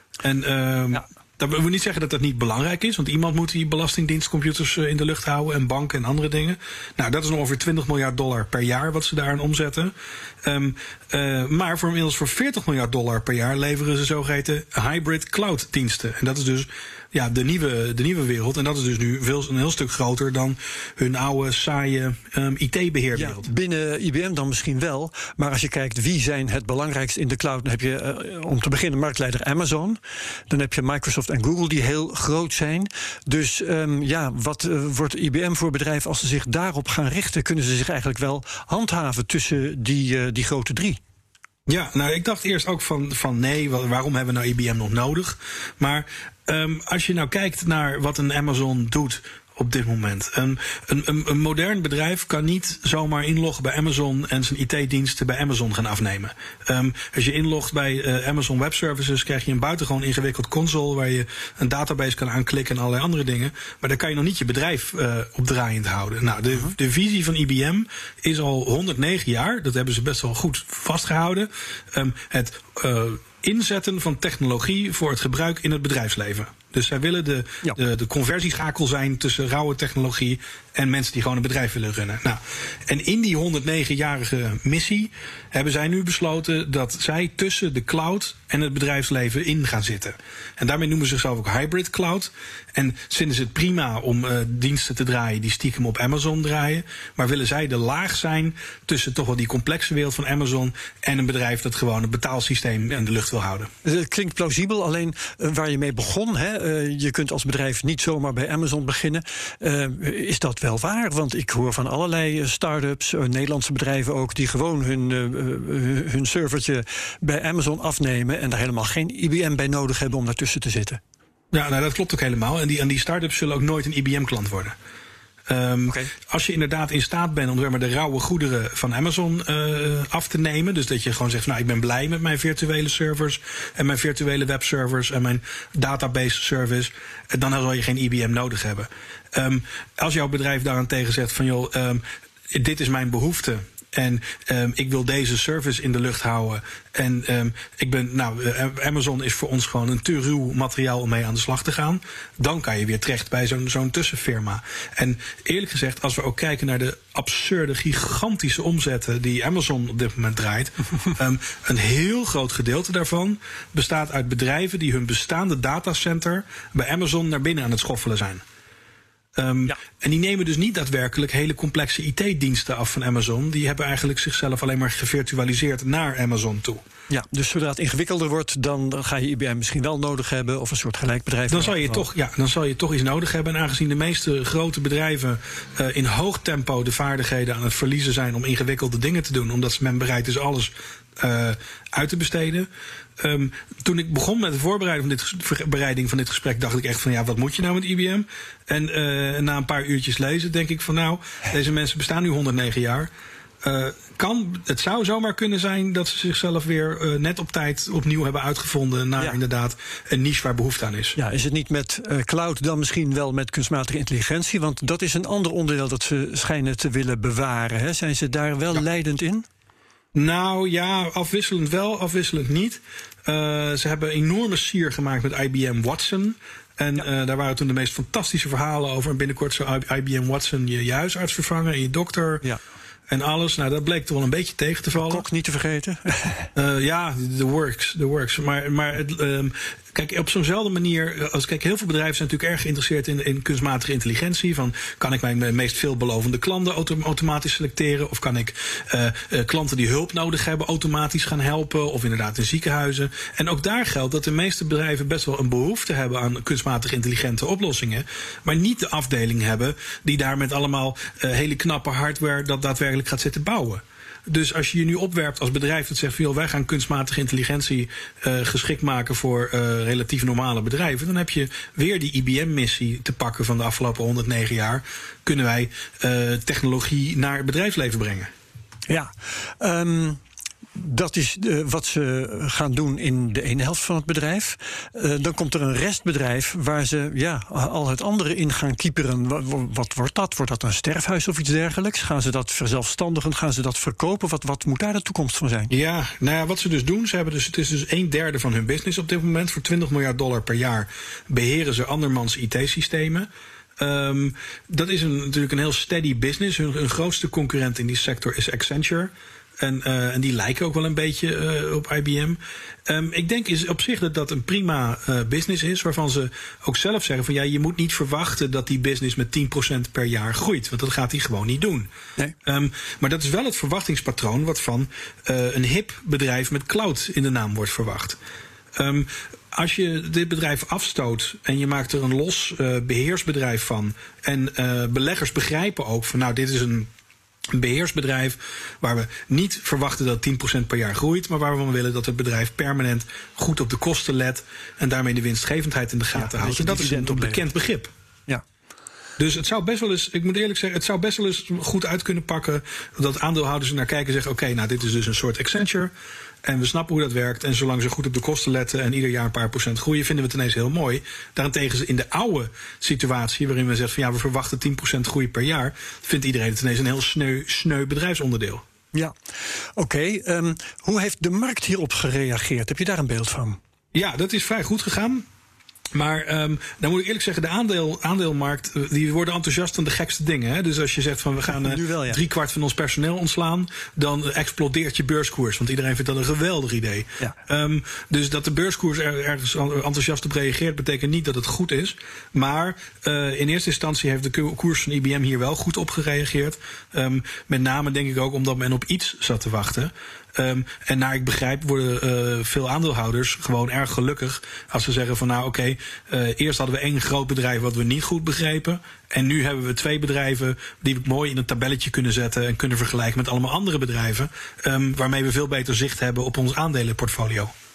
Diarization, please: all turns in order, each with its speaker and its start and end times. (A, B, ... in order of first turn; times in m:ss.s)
0:00.2-0:23.5 A
0:23.1-0:41.0 B
0:41.7-1:43.7 A
1:43.8-2:01.0 B
2:01.5-2:04.8 A
2:05.5-2:48.4 A
2:49.4-2:56.8 A
2:57.1-3:02.0 B
3:01.5-3:12.7 A
3:13.2-3:23.1 A
3:23.6-3:31.2 A
3:31.2-3:39.5 B
3:40.2-3:52.5 A
3:53.1-3:55.2 A
3:55.0-3:56.5 B
3:56.6-4:38.3 A
4:38.9-4:40.2 B
4:40.8-4:55.7 B
4:55.7-5:21.9 A
5:22.5-5:28.2 A
5:28.8-5:36.9 A
5:37.5-5:47.9 A
5:46.2-5:47.5 B
5:49.2-5:55.9 A
5:56.4-6:08.6 A
6:09.8-6:13.6 B
6:13.9-6:15.3 A
6:15.9-6:57.5 A
6:21.5-6:22.2 B